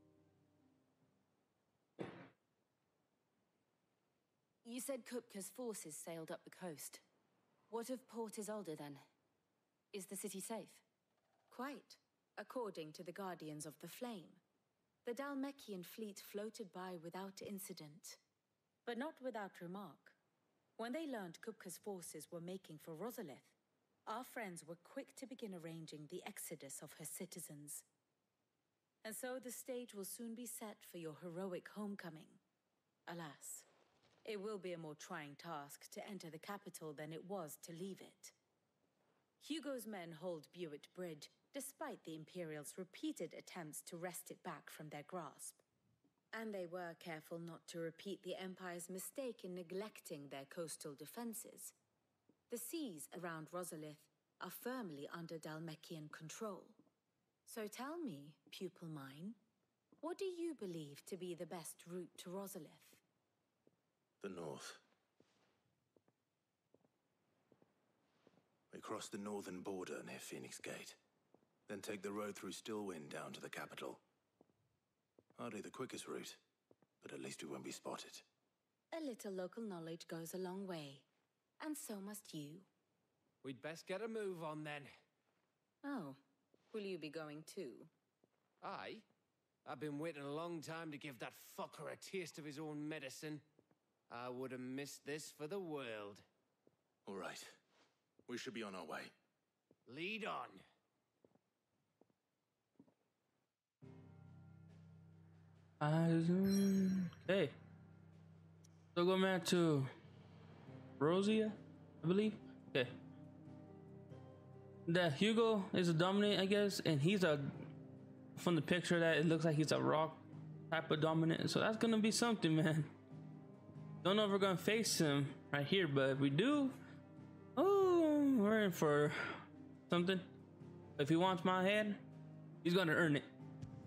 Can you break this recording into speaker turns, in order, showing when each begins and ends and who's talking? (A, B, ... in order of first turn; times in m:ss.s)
0:04.6-0:07.0 A
0:07.7-0:09.0 A
0:09.9-0:10.8 A
0:11.5-0:14.4 B
0:15.0-0:18.2 B
0:18.8-0:20.2 B
0:20.8-0:23.6 B
0:24.1-0:27.9 B
0:29.0-0:32.4 B
0:33.1-0:33.7 B
0:34.2-0:38.4 B
0:39.4-0:45.6 B
0:46.3-0:51.8 B
0:52.5-0:56.8 B
0:57.5-0:59.4 B
1:00.0-1:03.0 B
1:04.2-1:04.8 C
1:08.7-1:11.0 C
1:11.7-1:14.0 C
1:15.4-1:16.4 C
1:17.0-1:18.2 C
1:18.9-1:21.1 B
1:21.6-1:22.7 B
1:23.4-1:24.9 D
1:25.8-1:26.2 B
1:26.7-1:27.9 B
1:28.6-1:29.0 D
1:29.6-1:33.4 D
1:34.1-1:36.2 D
1:37.1-1:37.6 C
1:38.3-1:39.1 C
1:39.9-1:40.6 D
1:45.8-1:47.6 E
1:49.0-1:49.9 E
1:51.0-1:52.9 E
1:54.9-1:57.6 E
1:58.4-2:02.9 E
2:04.0-2:06.8 E
2:07.6-2:10.2 E
2:11.0-2:12.0 E
2:12.6-2:13.3 E